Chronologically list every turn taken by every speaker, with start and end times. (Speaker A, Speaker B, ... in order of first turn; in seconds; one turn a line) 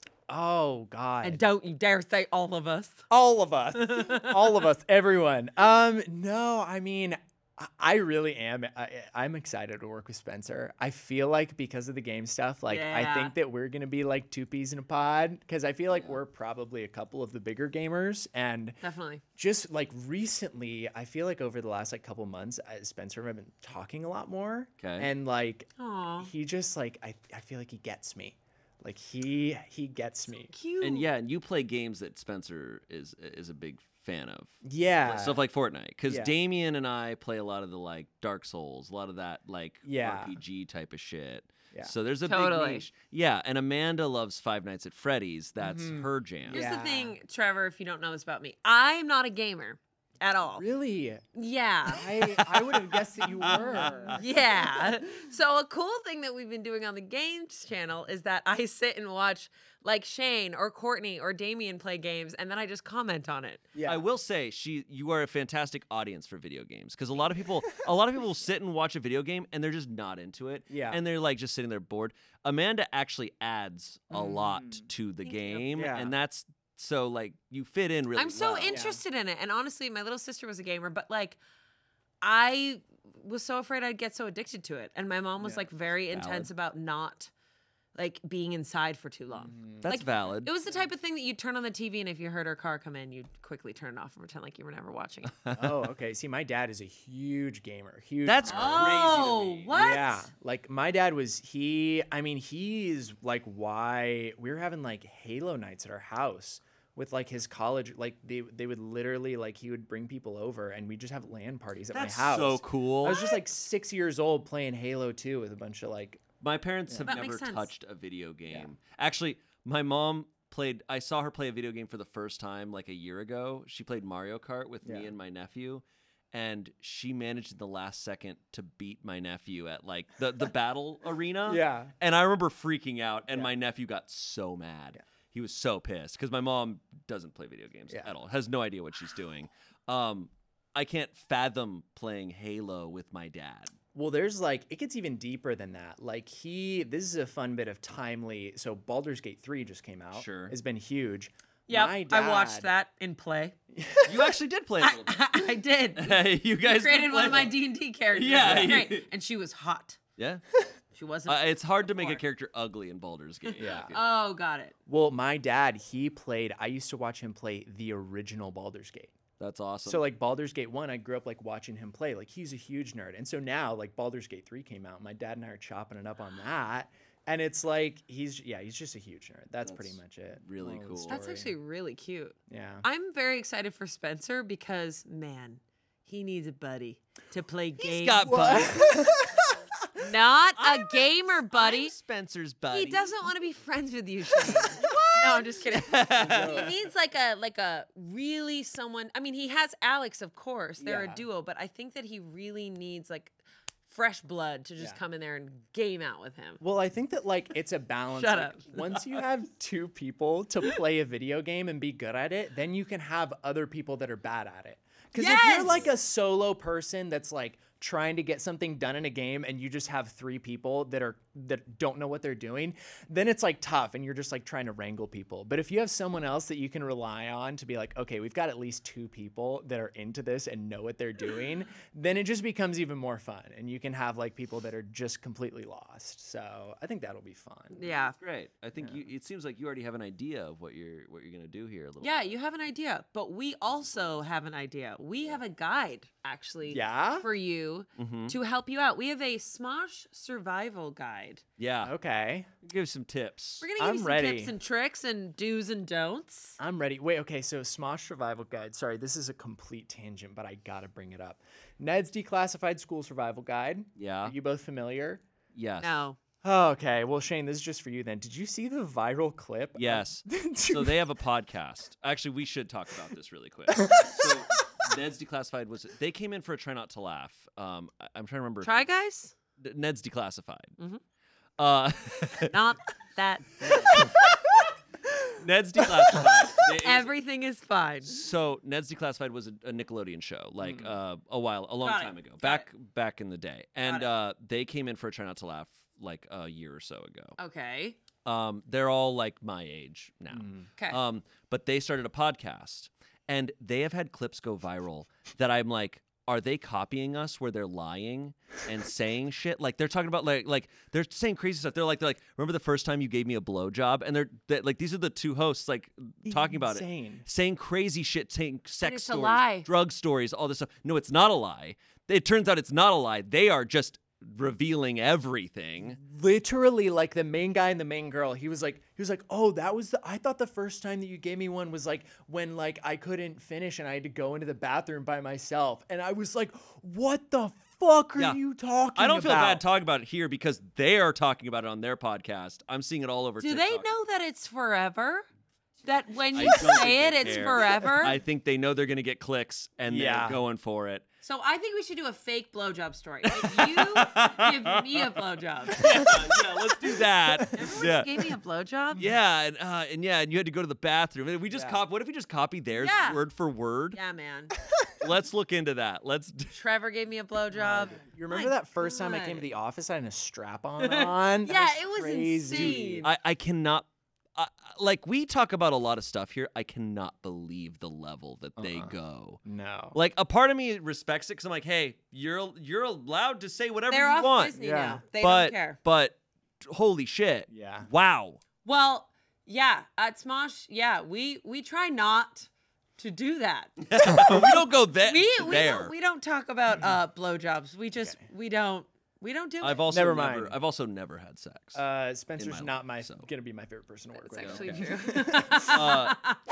Speaker A: 0.3-1.4
Speaker B: 1.2-3.1
Speaker A: 3.1-18.8
Speaker B: 3.7-4.6
Speaker B: 12.7-13.3
Speaker C: 15.9-16.2
Speaker B: 18.8-19.2
Speaker A: 19.4-25.7
Speaker C: 24.8-25.1
Speaker B: 25.8-26.3
Speaker A: 26.2-30.5
Speaker B: 30.5-31.1
Speaker C: 30.8-46.6
Speaker A: 34.6-35.4
Speaker A: 36.1-36.3
Speaker A: 39.9-40.4
Speaker B: 42.3-42.9
Speaker A: 45.6-47.2
Speaker B: 46.5-50.7
Speaker A: 50.5-51.2
Speaker B: 51.4-52.8
Speaker A: 51.9-54.9
Speaker C: 53.4-54.2
Speaker B: 53.4-63.7
Speaker A: 63.7-64.0
Speaker C: 63.8-78.8
Speaker A: 70.7-71.0
Speaker A: 74.1-74.8
Speaker B: 75.2-75.7
Speaker A: 75.8-76.1
Speaker B: 78.2-81.4
Speaker A: 78.7-79.0
Speaker B: 82.2-87.3
Speaker C: 86.1-86.5
Speaker B: 88.0-95.4
Speaker A: 89.3-90.0
Speaker C: 89.8-90.5
Speaker A: 95.5-99.1
Speaker C: 98.2-99.7
Speaker B: 98.5-100.3
Speaker A: 99.7-116.2
Speaker C: 111.9-113.2
Speaker B: 113.0-113.4
Speaker C: 116.4-143.7
Speaker A: 116.9-117.1
Speaker B: 117.0-117.7
Speaker A: 124.8-125.1
Speaker A: 131.5-131.9
Speaker A: 143.9-152.7
Speaker C: 150.1-150.6
Speaker B: 151.7-153.6
Speaker A: 153.7-154.3
Speaker C: 154.0-155.3
Speaker B: 154.8-160.0
Speaker C: 156.0-157.6
Speaker C: 158.1-159.1
Speaker A: 158.4-158.8
Speaker C: 160.2-160.4
Speaker B: 160.9-162.2
Speaker C: 161.3-164.1
Speaker B: 163.5-164.8
Speaker A: 163.6-164.0
Speaker A: 164.9-169.2
Speaker C: 169.4-170.1
Speaker A: 169.9-181.5
Speaker C: 179.6-181.2
Speaker B: 181.1-188.8
Speaker A: 182.5-182.9
Speaker C: 187.8-189.1
Speaker A: 188.2-189.9
Speaker B: 190.0-191.9
Speaker C: 190.6-193.2
Speaker B: 192.7-203.4
Speaker A: 194.5-195.0
Speaker C: 194.6-196.7
Speaker A: 196.1-196.8
Speaker A: 200.8-201.2
Speaker B: 203.9-206.6
Speaker A: 206.6-237.8
Speaker B: 208.2-209.0
Speaker B: 215.2-215.9
Speaker B: 237.7-238.2
Speaker C: 238.1-242.3
Speaker A: 238.8-239.1
Speaker B: 242.0-251.4
Speaker A: 246.7-247.3
Speaker C: 248.0-248.4
Speaker C: 251.6-251.9
Speaker A: 251.8-252.5
Speaker C: 252.6-253.7
Speaker B: 253.6-256.6
Speaker A: 253.8-254.5
Speaker A: 256.6-265.2
Speaker C: 264.0-264.4
Speaker C: 265.5-266.1
Speaker B: 265.8-266.2
Speaker A: 266.4-271.1
Speaker C: 269.8-278.9
Speaker A: 273.7-274.4
Speaker B: 278.6-279.3
Speaker C: 279.6-280.8
Speaker C: 281.6-282.5
Speaker B: 282.5-284.7
Speaker C: 283.6-284.2
Speaker C: 285.4-287.1
Speaker B: 286.1-288.2
Speaker C: 288.1-297.4
Speaker A: 290.6-290.9
Speaker B: 291.8-292.7
Speaker B: 297.4-298.0
Speaker C: 298.2-326.0
Speaker A: 300.3-300.7
Speaker A: 316.2-317.3
Speaker B: 318.8-319.7
Speaker A: 325.8-339.6
Speaker C: 339.0-343.9
Speaker B: 343.4-345.2
Speaker B: 345.8-348.2
Speaker C: 346.3-351.1
Speaker A: 349.9-350.4
Speaker B: 351.2-356.2
Speaker C: 353.3-355.2
Speaker C: 355.7-358.2
Speaker A: 357.3-357.9
Speaker B: 357.5-359.0
Speaker C: 359.0-364.0
Speaker A: 361.5-361.8
Speaker B: 362.8-363.2
Speaker B: 363.9-364.5
Speaker C: 365.0-366.6
Speaker B: 366.5-369.5
Speaker A: 367.5-373.1
Speaker B: 370.8-373.1
Speaker C: 372.5-379.4
Speaker A: 378.6-380.0
Speaker C: 379.9-384.6
Speaker B: 383.9-385.8
Speaker A: 384.6-385.0
Speaker C: 385.2-388.4
Speaker A: 387.5-387.9
Speaker B: 388.6-399.9
Speaker C: 393.9-395.9
Speaker A: 396.7-397.0
Speaker A: 398.0-398.3
Speaker C: 399.6-401.8
Speaker A: 399.9-400.6
Speaker A: 401.8-405.9
Speaker C: 402.4-403.3
Speaker B: 404.2-406.4
Speaker C: 404.4-404.9
Speaker C: 405.5-406.2